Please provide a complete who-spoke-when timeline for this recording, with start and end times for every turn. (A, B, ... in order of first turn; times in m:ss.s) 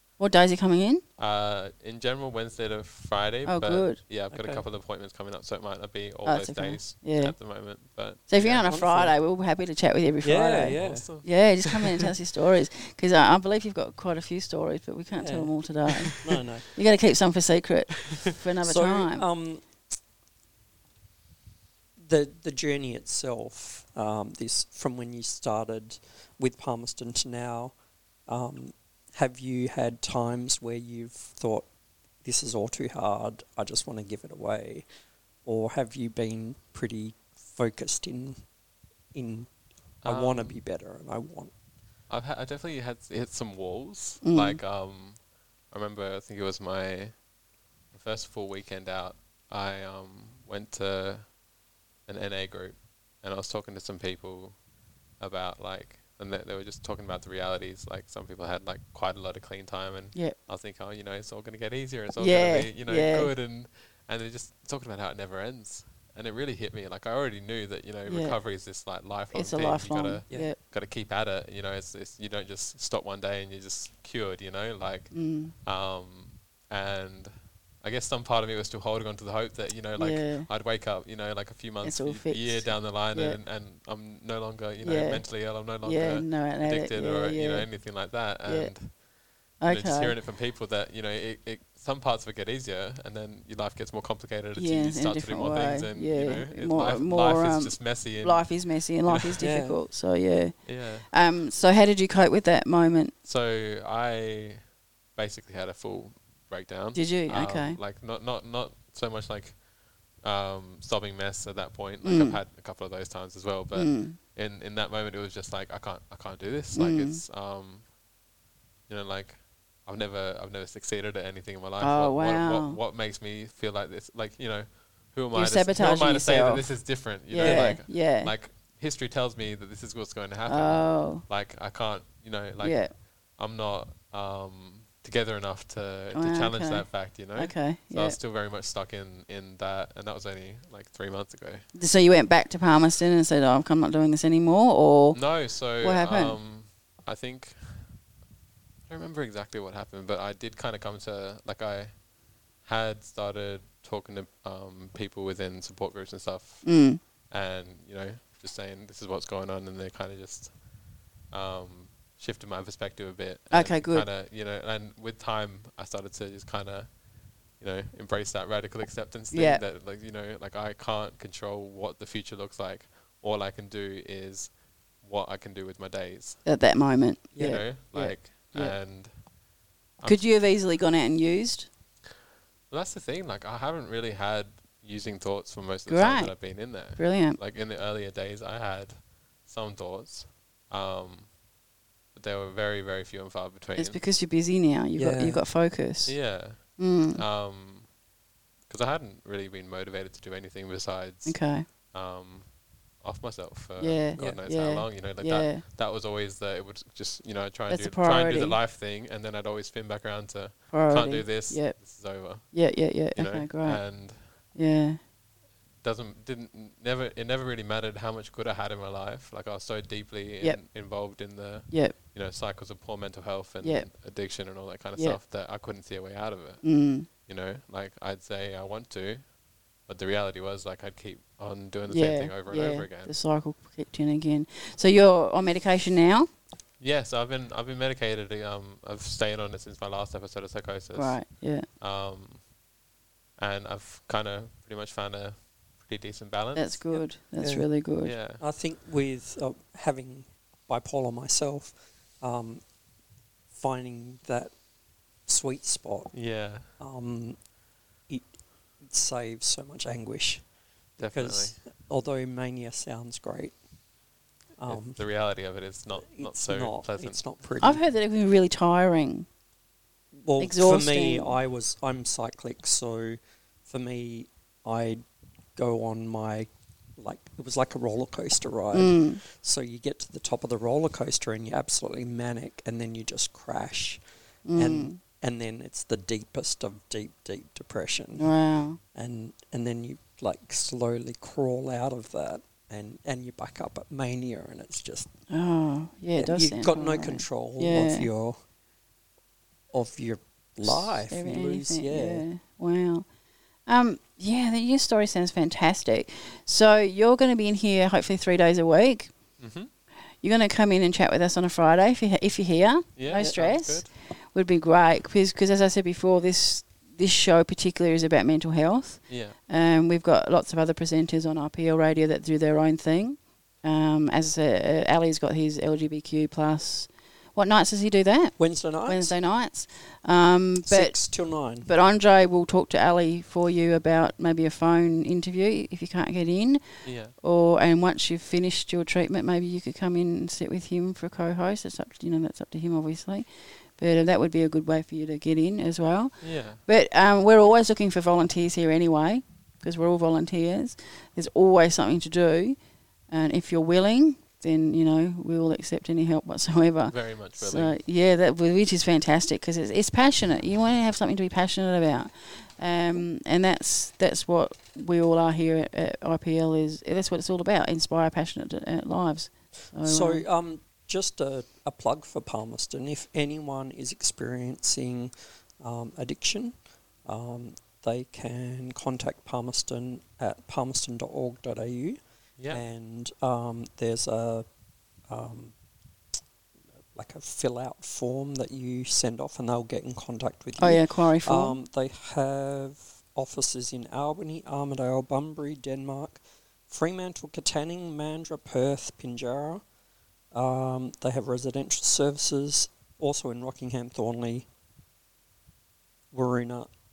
0:00.2-0:01.0 A
0:01.2-0:08.7 B
0:03.5-0:04.0 A
0:04.3-0:04.6 C
0:06.2-0:07.4 A
0:08.3-0:16.2 A
0:08.6-0:09.2 C
0:10.2-0:11.1 C
0:10.8-0:11.3 B
0:11.8-0:12.0 C
0:15.2-0:15.5 C
0:16.0-0:16.7 C
0:16.8-0:19.3 A
0:18.1-0:18.4 B
0:18.6-0:19.6 C
0:22.0-0:27.7 C
0:28.3-0:31.7 C
0:32.2-0:34.9 C
0:35.4-0:38.4 C
0:39.1-0:39.5 C
0:40.0-0:40.6 B
0:40.0-0:41.5 C
0:42.1-0:45.2 B
0:44.2-0:44.6 A
0:45.7-0:47.2 B
0:47.9-0:51.3 B
0:52.1-0:54.6 B
0:55.2-1:15.1 B
1:02.2-1:03.3 A
1:08.1-1:08.4 A
1:09.3-1:10.6 A
1:15.1-1:15.5 A
1:15.6-1:29.0 B
1:20.0-1:20.5 A
1:21.8-1:23.4 A
1:24.8-1:27.7 A
1:28.4-1:28.7 A
1:29.6-1:39.4 B
1:29.6-1:30.2 A
1:34.6-1:43.1 A
1:39.4-1:39.8 C
1:40.7-1:41.1 B
1:43.2-1:49.6 B
1:47.0-1:47.8 A
1:50.2-1:57.9 B
1:52.0-1:52.4 A
1:53.7-1:54.2 A
1:56.8-1:57.2 A
1:58.9-2:21.7 B
2:01.8-2:02.8 A
2:05.3-2:08.3 A
2:07.4-2:07.6 C
2:10.5-2:11.3 A
2:12.6-2:12.9 A
2:16.1-2:18.2 A
2:21.8-2:25.2 A
2:25.1-2:27.9 B
2:25.8-2:26.4 A
2:28.9-2:32.0 B
2:32.6-2:36.7 B
2:36.6-2:37.0 A
2:37.3-2:40.5 B
2:41.3-2:47.0 B
2:43.5-2:44.1 A
2:47.6-2:56.4 B
2:49.3-2:49.6 A
2:56.4-2:58.8 A
2:57.4-2:57.6 C
2:57.4-2:59.1 B
3:00.0-3:00.3 B
3:00.0-3:01.7 A
3:02.7-3:11.3 B
3:05.9-3:07.4 A
3:12.1-3:14.0 B
3:13.8-3:16.2 A
3:15.0-3:15.4 C
3:16.1-3:17.9 B
3:16.7-3:17.2 A
3:18.7-3:34.4 B
3:21.3-3:21.7 A
3:23.8-3:25.6 A
3:24.2-3:24.4 C
3:27.7-3:28.6 A
3:30.7-3:35.0 A
3:35.8-3:49.3 B
3:41.7-3:42.0 A
3:43.6-3:43.9 A
3:46.6-3:47.1 A
3:49.9-3:53.1 B
3:51.9-3:56.3 A
3:56.8-4:01.2 B
4:00.9-4:01.7 A
4:01.8-4:02.5 B
4:03.4-4:06.8 B
4:06.6-4:08.2 A
4:07.4-4:07.7 C
4:08.0-4:08.4 B
4:08.4-4:12.6 C
4:13.5-4:14.5 C
4:15.3-4:16.1 C
4:16.1-4:16.7 B
4:16.8-4:17.4 C
4:18.1-4:20.4 C
4:21.0-4:21.6 B
4:21.0-4:23.6 C
4:24.6-4:25.0 C
4:24.7-4:27.2 B
4:26.0-4:27.8 C
4:27.6-4:29.3 A
4:30.2-4:35.0 C
4:30.4-4:31.4 A
4:35.6-4:44.0 C
4:38.7-4:39.2 A
4:44.5-4:45.0 A
4:44.6-4:48.3 C
4:48.2-4:48.8 A
4:49.0-4:55.1 C
4:55.3-4:58.1 A
4:56.2-4:58.4 C
4:59.7-5:02.3 C
5:00.6-5:03.1 A
5:03.7-5:09.2 A
5:09.4-5:09.7 B
5:10.2-5:31.0 A
5:13.0-5:13.9 B
5:19.1-5:19.4 B
5:28.4-5:29.1 C
5:30.7-5:31.7 C
5:31.6-5:36.6 A
5:36.8-5:37.2 B
5:37.2-5:52.6 A
5:46.2-5:46.6 B
5:53.1-6:10.3 A
5:56.9-5:57.7 B
6:09.8-6:24.5 C
6:25.1-6:25.5 C
6:26.9-6:39.6 C
6:30.6-6:31.6 A
6:40.3-6:44.5 C
6:46.1-6:46.7 C